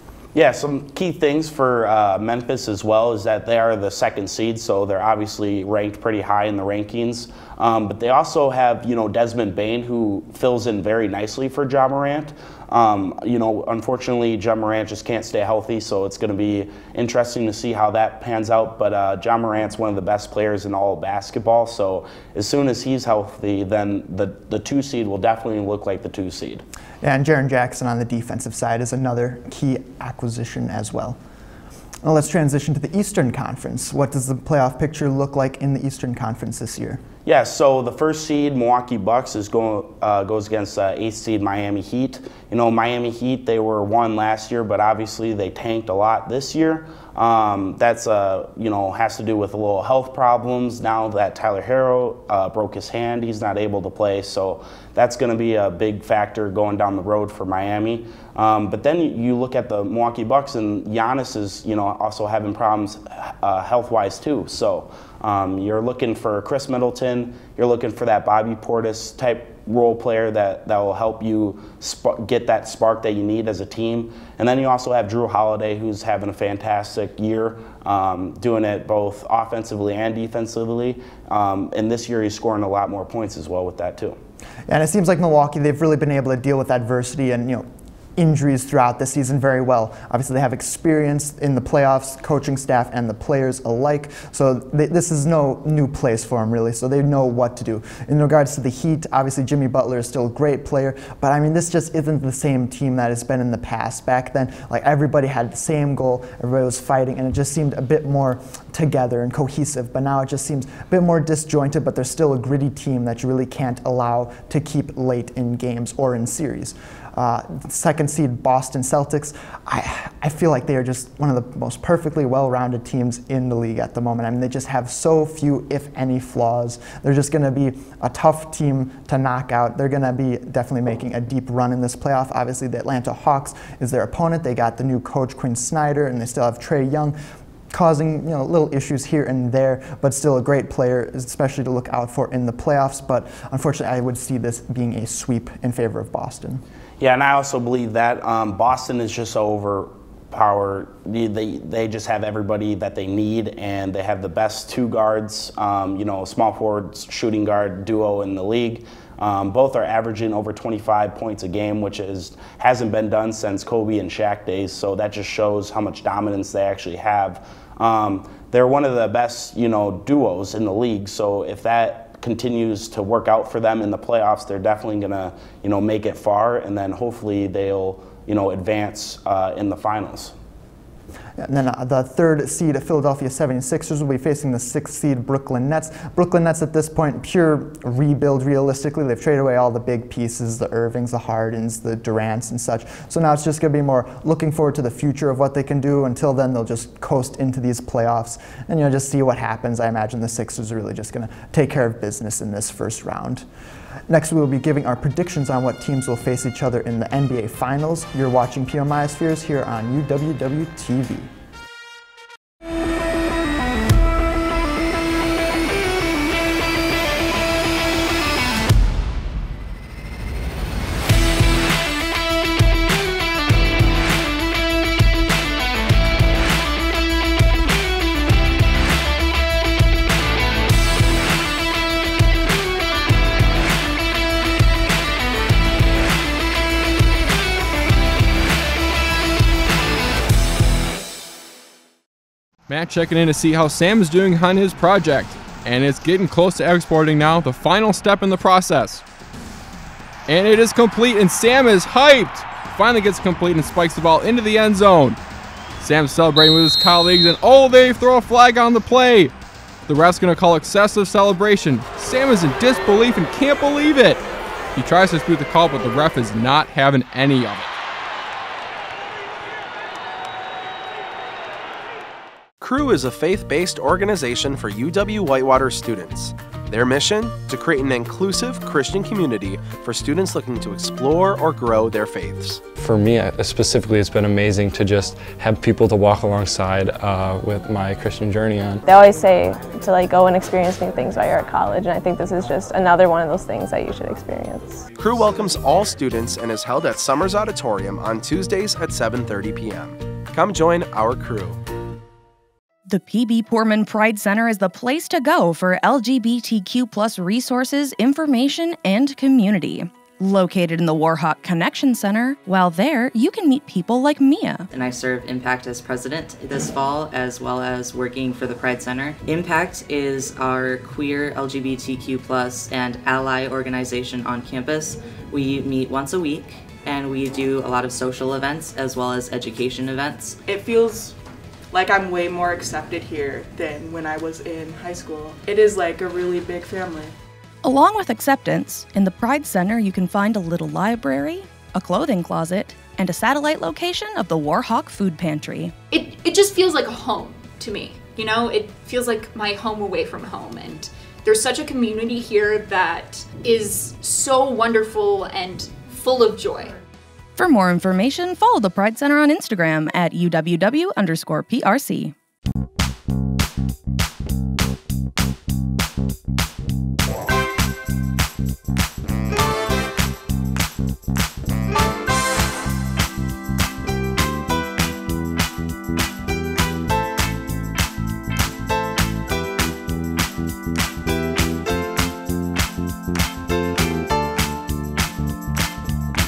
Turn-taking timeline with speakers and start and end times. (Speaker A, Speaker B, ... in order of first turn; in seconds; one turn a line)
Speaker A: 0.3-26.6
Speaker B: 27.0-31.2
Speaker B: 32.0-37.0
Speaker A: 37.2-84.2
Speaker B: 84.7-137.2
Speaker B: 137.7-146.6
Speaker A: 147.0-180.3
Speaker B: 181.4-203.4
Speaker B: 204.1-211.3
Speaker C: 242.7-249.0
Speaker C: 250.3-255.2
Speaker C: 255.8-259.3
Speaker C: 259.9-264.2
Speaker C: 264.7-267.7
Speaker D: 272.6-282.6
Speaker E: 282.8-288.8
Speaker F: 288.8-294.8
Speaker D: 295.0-301.6
Speaker G: 302.9-314.6
Speaker H: 314.7-330.4
Speaker I: 330.4-331.1
Speaker I: 331.7-337.1
Speaker G: 337.6-345.7
Speaker J: 345.9-356.8
Speaker G: 357.4-362.1